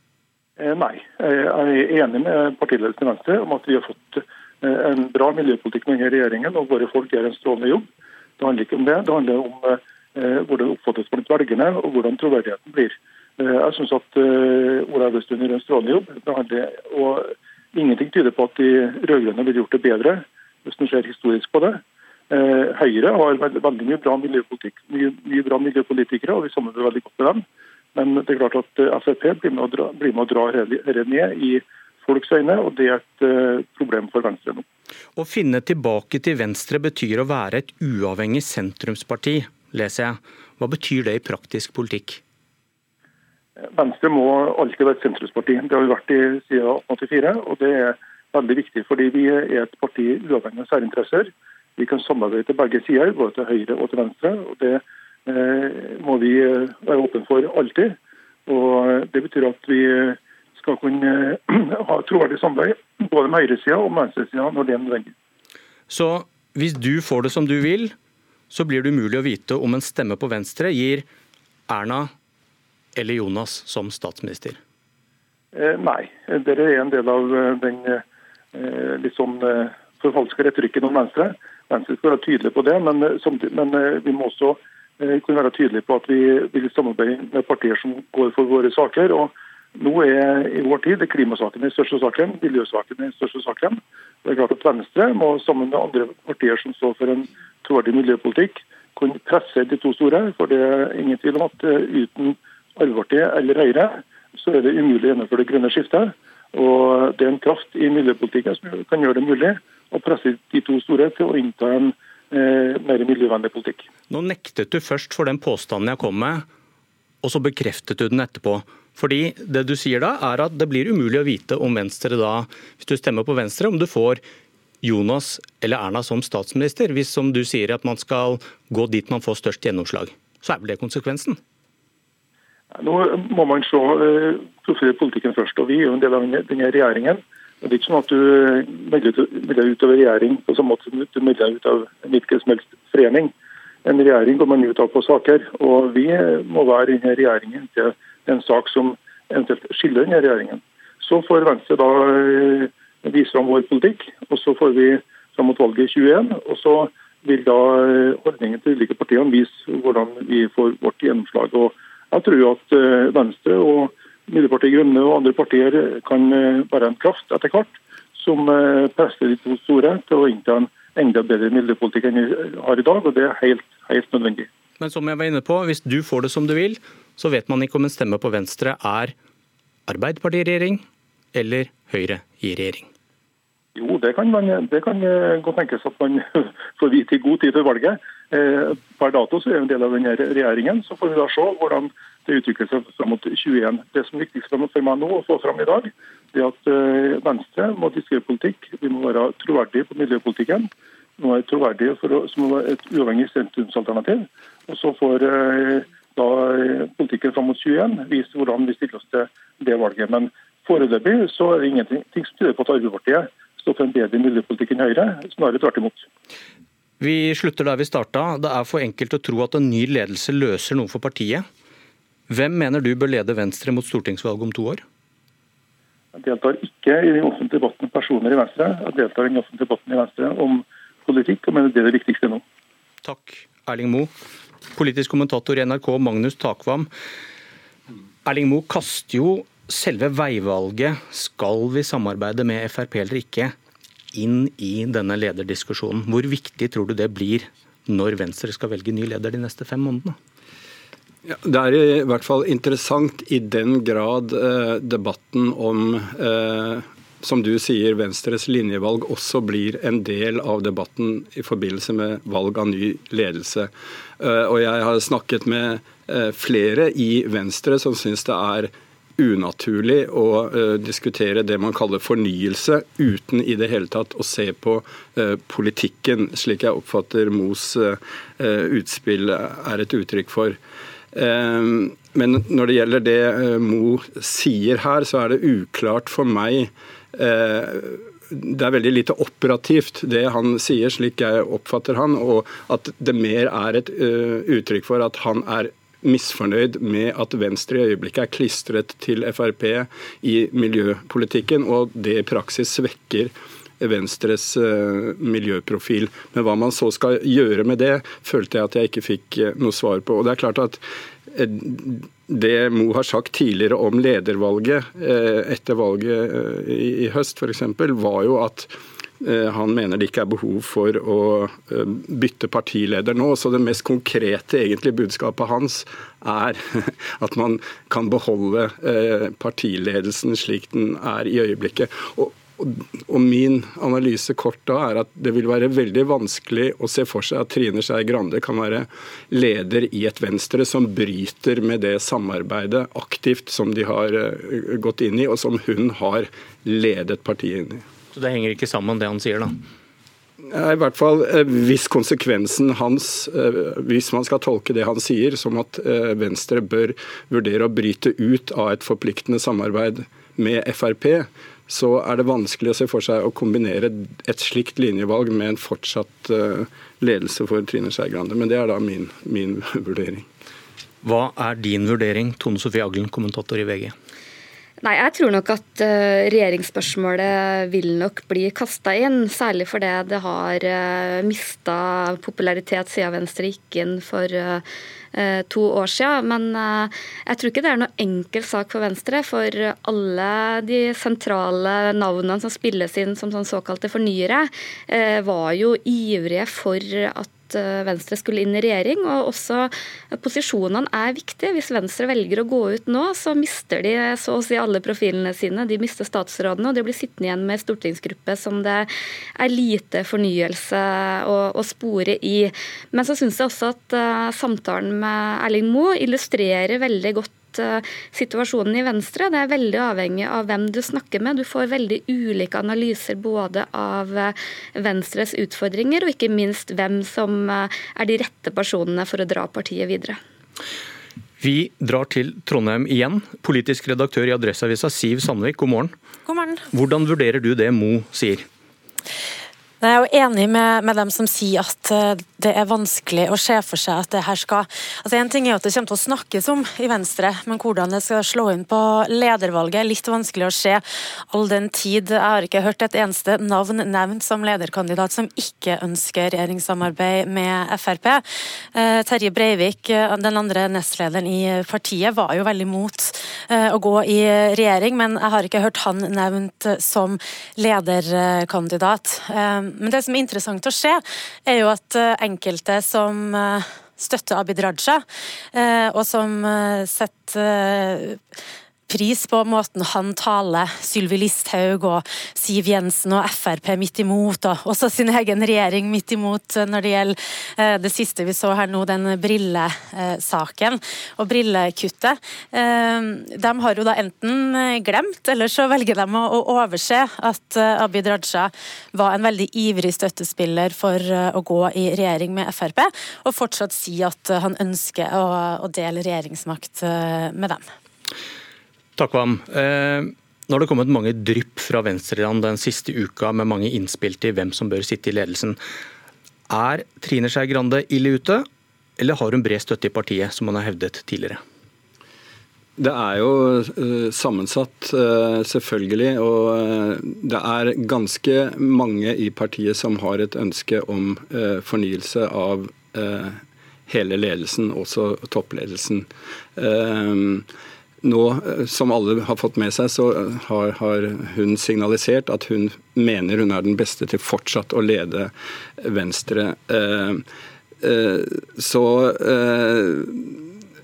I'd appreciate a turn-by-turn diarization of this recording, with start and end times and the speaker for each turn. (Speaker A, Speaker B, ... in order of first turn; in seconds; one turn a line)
Speaker A: 0.6-7.8
Speaker A: 8.4-21.8
Speaker A: 22.3-34.6
Speaker B: 35.2-42.2
Speaker A: 43.7-65.1
Speaker B: 65.9-67.9
Speaker B: 68.5-71.0
Speaker B: 71.7-72.1
Speaker B: 73.0-74.6
Speaker A: 75.5-78.0
Speaker A: 78.5-113.9
Speaker B: 114.1-116.4
Speaker B: 117.2-124.2
Speaker B: 124.8-131.4
Speaker A: 132.7-143.3
Speaker A: 143.8-174.5
Speaker B: 174.8-179.1
Speaker B: 179.9-180.8
Speaker B: 181.3-182.9
Speaker A: 183.7-216.1
Speaker B: 217.0-221.4
Speaker B: 222.3-224.8
Speaker A: 226.1-232.4
Speaker B: 233.0-234.1
Speaker B: 234.7-236.9
Speaker B: 238.2-243.5
Speaker B: 244.1-250.1
Speaker C: 251.2-280.6
Speaker C: 281.1-347.8
Speaker B: 348.1-349.6
Speaker C: 350.5-370.3
Speaker B: 371.0-373.9
Speaker D: 374.8-430.2
Speaker B: 431.4-435.9
Speaker E: 436.2-436.6
Speaker B: 436.7-438.4
Speaker E: 439.8-458.2
Speaker E: 458.7-478.2
Speaker E: 478.9-507.6
Speaker B: 509.0-515.6
Speaker B: 516.5-518.4
Speaker B: 519.0-521.4
Speaker C: 522.8-537.5
Speaker C: 538.0-547.2
Speaker C: 547.8-550.5